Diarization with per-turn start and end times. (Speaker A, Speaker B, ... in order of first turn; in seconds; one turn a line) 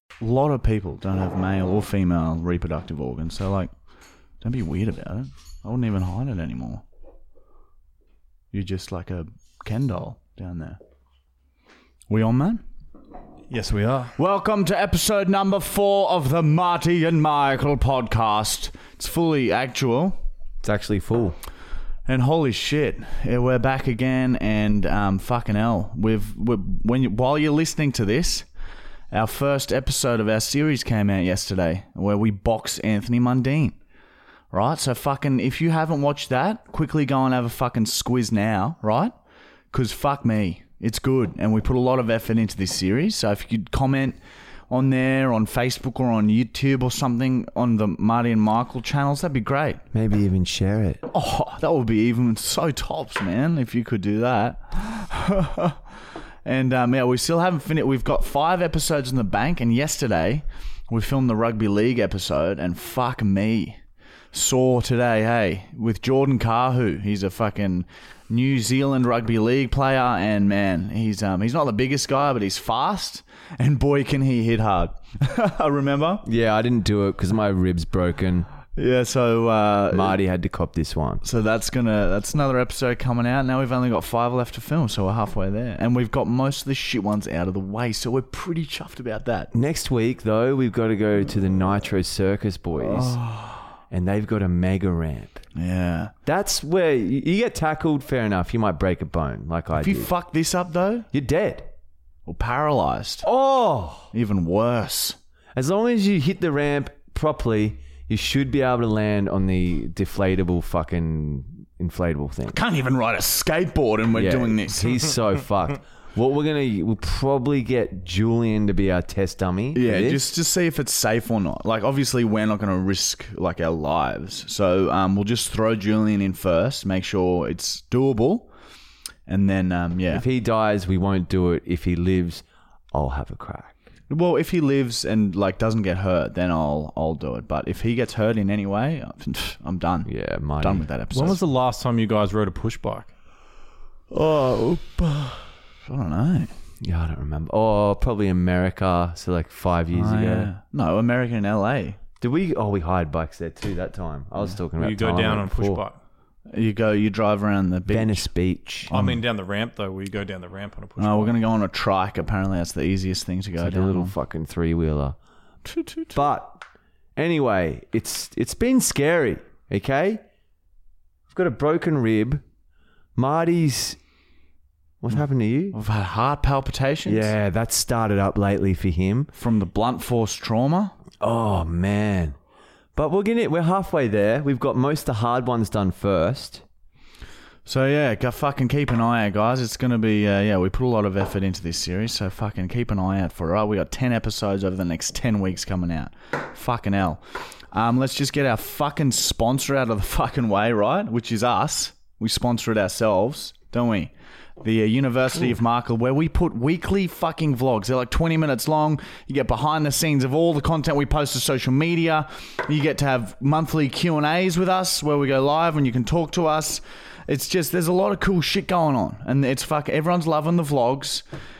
Speaker A: 0.2-3.7
Speaker A: 4.4-6.8
Speaker A: 8.5-10.8
Speaker A: 12.1-12.6
Speaker B: 13.5-14.1
Speaker A: 14.2-20.2
Speaker C: 20.6-21.4
Speaker A: 22.1-28.5
Speaker A: 29.1-33.8
Speaker A: 34.5-39.1
Speaker A: 39.7-44.2
Speaker A: 44.7-49.8
Speaker C: 49.9-51.0
Speaker A: 51.1-55.8
Speaker A: 56.4-63.8
Speaker A: 64.3-76.2
Speaker C: 76.2-78.5
Speaker A: 78.8-80.2
Speaker C: 79.9-81.2
Speaker A: 81.2-89.5
Speaker C: 89.5-93.2
Speaker A: 92.8-93.7
Speaker C: 93.9-95.4
Speaker A: 95.5-96.1
Speaker C: 96.2-100.1
Speaker A: 99.7-101.1
Speaker C: 101.1-101.7
Speaker A: 102.2-103.3
Speaker C: 103.2-104.1
Speaker A: 104.1-105.2
Speaker C: 105.5-112.6
Speaker A: 112.5-115.1
Speaker C: 114.1-120.2
Speaker A: 119.7-128.5
Speaker A: 129.3-130.2
Speaker C: 130.1-133.7
Speaker A: 134.1-141.4
Speaker C: 140.1-140.9
Speaker B: 141.1-143.1
Speaker A: 144.1-146.5
Speaker C: 146.8-150.5
Speaker A: 149.9-152.0
Speaker C: 152.2-155.8
Speaker B: 154.8-156.0
Speaker A: 156.5-158.3
Speaker C: 157.9-158.9
Speaker A: 158.9-159.2
Speaker B: 158.9-161.3
Speaker A: 161.0-164.1
Speaker C: 163.6-165.2
Speaker A: 165.7-166.2
Speaker C: 166.1-166.6
Speaker C: 167.2-170.2
Speaker C: 171.3-172.4
Speaker C: 173.2-174.0
Speaker C: 175.0-175.8
Speaker A: 175.7-177.3
Speaker C: 177.0-179.3
Speaker A: 179.3-180.9
Speaker C: 181.2-182.4
Speaker C: 182.9-186.6
Speaker A: 187.7-221.2